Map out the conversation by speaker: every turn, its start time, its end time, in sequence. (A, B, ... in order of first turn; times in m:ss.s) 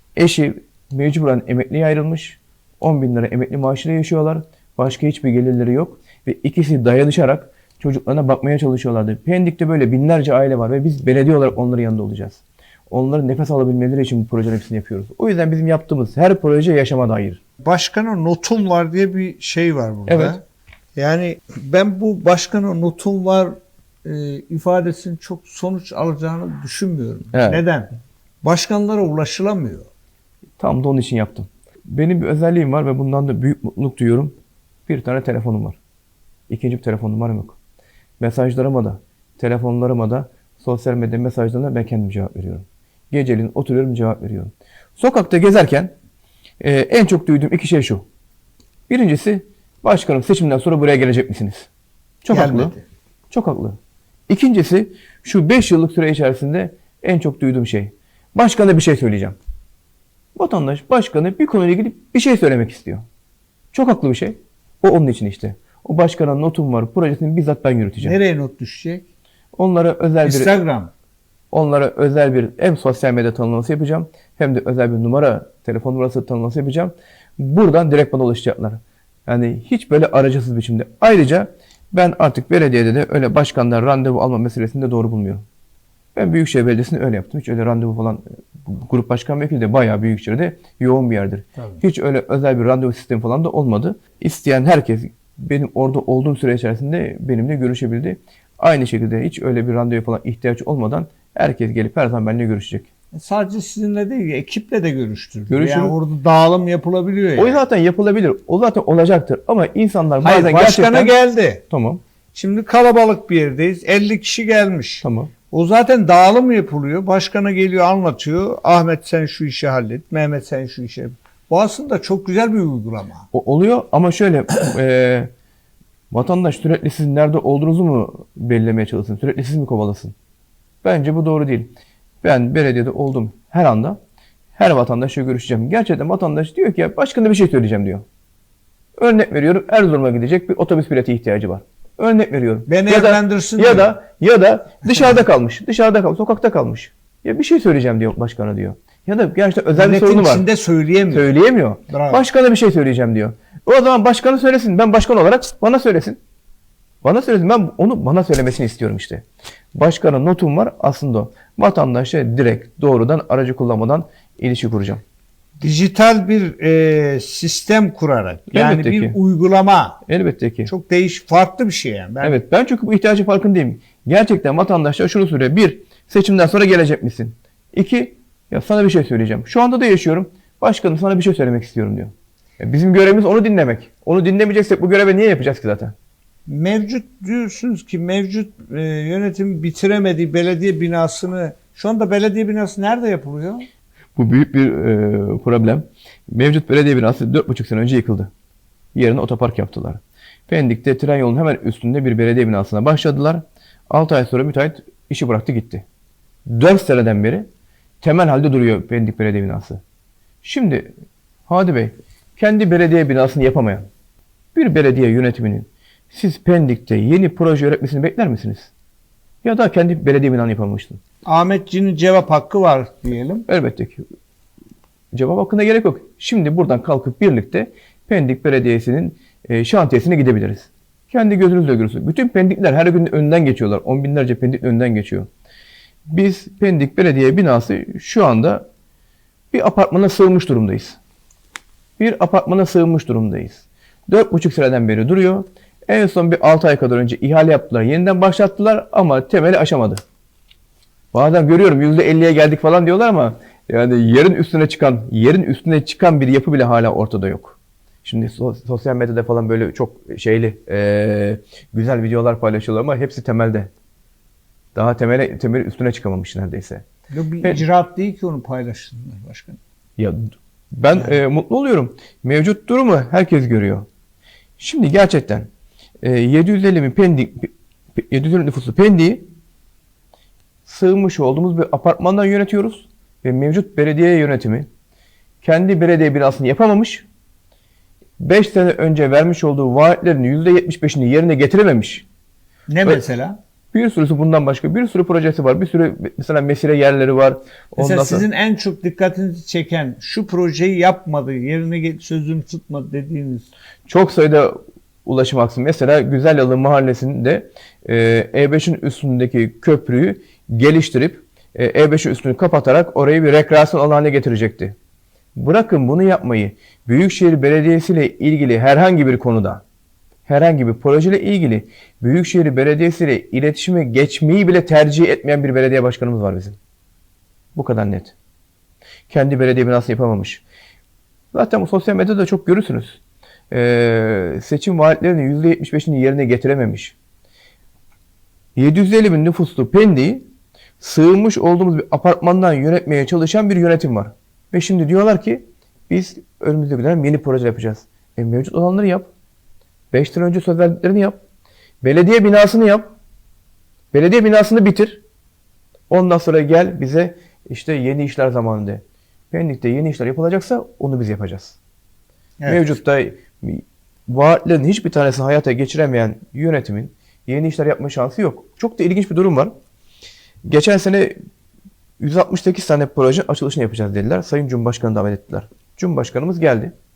0:00.2-0:17.4 A
0:17.6-0:20.4 B
0:20.1-0:20.4 A
0:20.9-0:27.9 B
0:27.3-0:27.6 A
0:28.4-0:29.9 B
0:30.6-0:34.3 A
0:34.9-0:35.8 A
0:36.5-0:37.6 A
0:38.2-0:45.9 A
0:46.6-0:48.0 A
0:48.9-0:51.7 A
0:52.2-0:52.7 A
0:52.3-0:52.8 B
0:53.3-0:53.8 A
0:54.3-0:59.4 A
1:00.3-1:03.0 A
1:03.7-1:08.2 A
1:08.0-1:09.0 B
1:09.5-1:10.6 A
1:10.2-1:10.9 B
1:11.5-1:25.4 A
1:26.1-1:42.9 A
1:43.1-1:47.6 B
1:45.5-1:45.9 A
1:47.4-1:51.1 A
1:50.2-1:51.6 B
1:51.7-1:52.0 A
1:52.3-2:03.3 B
1:55.0-1:55.3 A
2:03.3-2:05.3 A
2:06.1-2:10.1 A
2:10.8-2:11.7 A
2:12.2-2:14.0 A
2:14.6-2:18.0 A
2:19.0-2:30.4 A
2:22.7-2:23.9 B
2:29.7-2:31.3 B
2:31.1-2:36.2 A
2:31.9-2:32.2 B
2:37.0-2:39.2 A
2:39.7-2:45.0 A
2:45.6-2:50.0 B
2:48.5-2:49.2 A
2:50.1-2:50.7 A
2:50.6-2:52.4 B
2:52.2-3:05.9 A
3:06.5-3:13.7 B
3:14.2-3:18.3 A
3:18.9-3:25.8 A
3:26.4-3:27.4 A
3:28.0-3:29.8 A
3:30.4-3:30.9 A
3:31.5-3:33.8 A
3:34.5-3:38.7 A
3:39.4-3:41.0 A
3:41.2-3:43.4 B
3:43.5-3:44.0 A
3:45.1-3:55.3 A
3:56.1-3:58.6 A
3:59.5-4:01.0 A
4:02.0-4:10.0 A
4:11.1-4:23.7 A
4:24.7-4:26.8 A
4:27.1-4:29.6 B
4:30.7-4:33.8 A
4:34.6-4:35.5 A
4:36.0-4:39.2 A
4:40.6-4:44.7 A
4:45.4-4:47.0 A
4:48.2-4:52.0 A
4:52.7-4:53.4 B
4:53.7-4:58.3 A
4:57.8-5:03.5 B
5:03.9-5:14.7 A
5:15.4-5:19.6 A
5:20.3-5:26.6 A
5:27.5-5:28.1 A
5:29.1-5:30.4 A
5:31.3-5:33.0 A
5:33.5-5:37.0 A
5:38.6-5:40.2 A
5:40.8-5:49.1 A
5:49.9-5:51.2 A
5:51.8-5:52.9 A
5:53.9-5:55.0 A
5:55.9-6:01.6 A
6:02.4-6:02.7 B
6:02.5-6:09.5 A
6:10.4-6:11.1 A
6:12.0-6:16.7 A